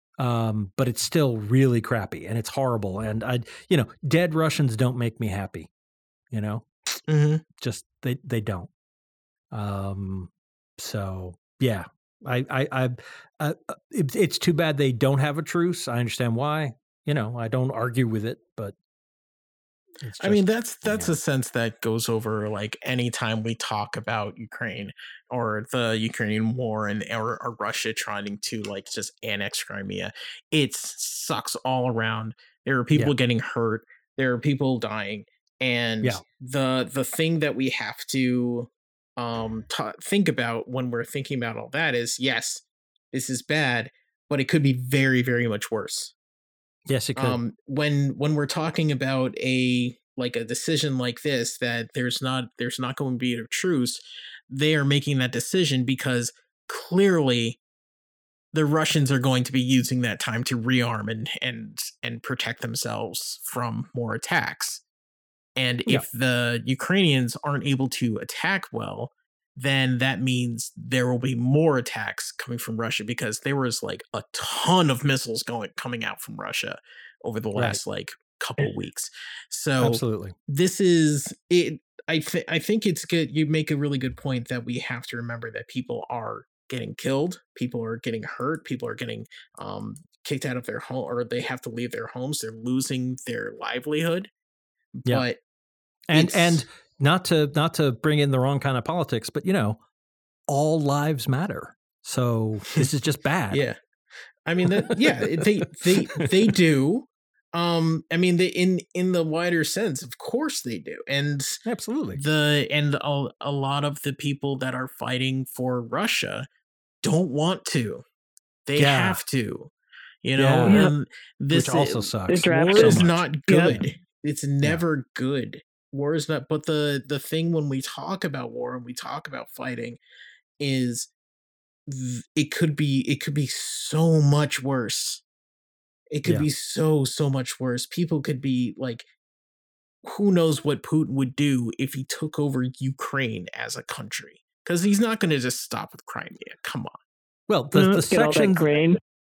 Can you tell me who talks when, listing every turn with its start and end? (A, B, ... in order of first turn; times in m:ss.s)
0:00.2-0:05.7 A
0:06.3-0:07.0 A
0:07.1-0:07.4 B
0:07.6-0:08.7 A
0:09.5-0:18.8 A
0:20.0-0:21.2 A
0:20.2-0:46.1 B
0:46.9-0:47.4 A
0:47.2-0:57.6 B
0:58.5-1:04.8 B
1:05.6-1:34.3 B
1:17.6-1:17.8 A
1:19.8-1:20.4 A
1:35.0-1:35.4 B
1:36.1-1:39.8 A
1:36.1-1:36.6 B
1:40.5-1:43.6 A
1:43.5-1:43.8 B
1:44.4-1:51.6 B
1:51.6-1:52.2 A
1:52.2-1:56.5 B
1:57.0-1:58.0 B
1:58.7-1:59.7 B
1:58.8-1:59.2 A
2:00.2-2:10.0 B
2:00.4-2:00.8 A
2:00.7-2:00.9 C
2:01.5-2:03.8 A
2:02.3-2:03.8 C
2:10.6-2:11.1 B
2:11.9-2:15.2 B
2:16.1-2:19.1 B
2:20.0-2:27.0 B
2:27.5-2:28.6 A
2:27.7-2:29.0 C